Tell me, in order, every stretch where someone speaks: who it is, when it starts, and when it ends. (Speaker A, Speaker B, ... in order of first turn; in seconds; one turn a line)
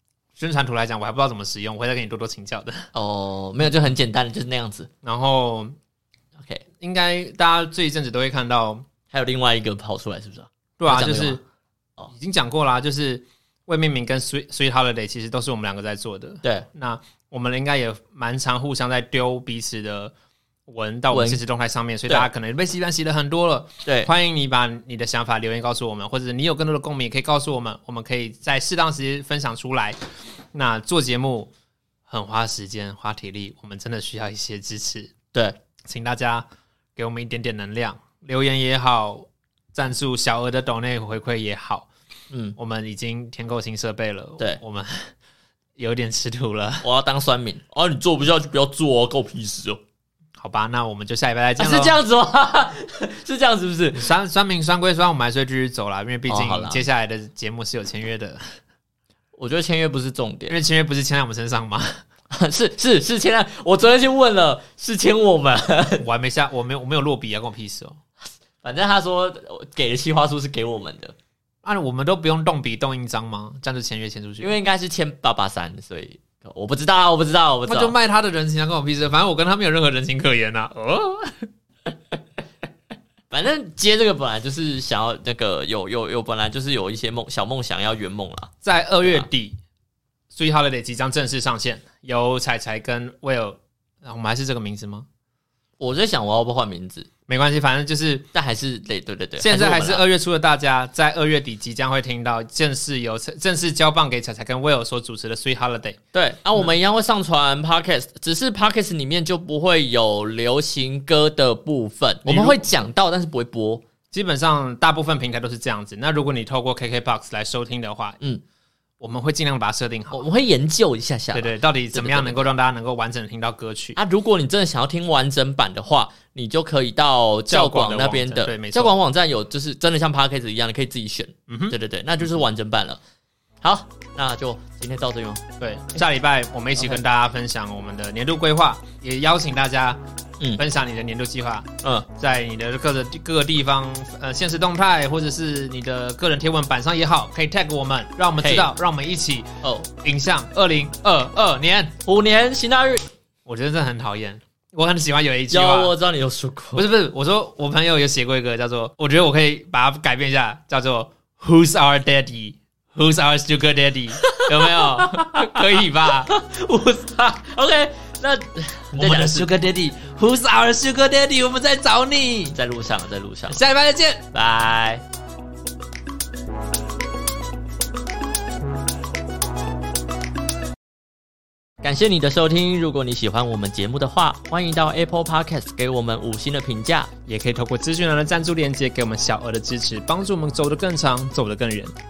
Speaker A: 0.4-2.9
Speaker B: 2.9-4.9
Speaker A: 5.0-5.8
Speaker B: 6.4-6.6
Speaker A: 6.8-8.8
Speaker B: 9.1-11.4
Speaker A: 10.8-11.4
Speaker A: 12.1-20.1
Speaker A: 20.7-30.0
Speaker B: 21.1-21.4
Speaker B: 23.9-24.1
Speaker A: 30.5-31.5
Speaker A: 32.1-35.1
Speaker A: 35.9-36.5
Speaker A: 37.0-41.9
Speaker B: 42.3-42.6
Speaker A: 42.6-45.1
Speaker A: 45.8-46.9
Speaker B: 46.8-49.8
Speaker A: 50.4-52.0
Speaker B: 51.6-54.1
Speaker A: 53.9-58.4
Speaker B: 56.3-56.9
Speaker B: 59.4-60.6
Speaker A: 60.5-62.0
Speaker B: 62.3-66.1
Speaker A: 66.0-68.0
Speaker B: 68.6-71.2
Speaker A: 71.6-74.6
Speaker B: 74.4-78.0
Speaker A: 77.7-81.5
Speaker B: 83.3-88.5
Speaker A: 88.6-89.6
Speaker A: 90.3-95.1
Speaker B: 95.8-97.1
Speaker A: 97.3-98.3
Speaker B: 98.3-100.0
Speaker A: 99.4-106.0
Speaker B: 106.1-113.8
Speaker A: 112.2-112.7
Speaker A: 114.1-118.2
Speaker A: 119.0-120.2
Speaker B: 120.1-122.5
Speaker A: 121.3-124.0
Speaker B: 124.0-133.0
Speaker A: 127.5-129.0
Speaker A: 131.5-131.8
Speaker B: 133.6-135.4
Speaker A: 135.6-140.0
Speaker A: 140.6-149.5
Speaker B: 148.4-148.7
Speaker B: 149.6-149.9
Speaker A: 150.0-151.9
Speaker B: 152.1-153.0
Speaker A: 153.5-155.9
Speaker B: 155.5-156.9
Speaker A: 156.8-166.3
Speaker B: 164.2-165.6
Speaker B: 166.3-169.5
Speaker A: 168.9-172.6
Speaker B: 172.5-173.6
Speaker A: 173.5-174.3
Speaker B: 174.3-175.0
Speaker B: 181.8-187.1
Speaker A: 187.3-191.9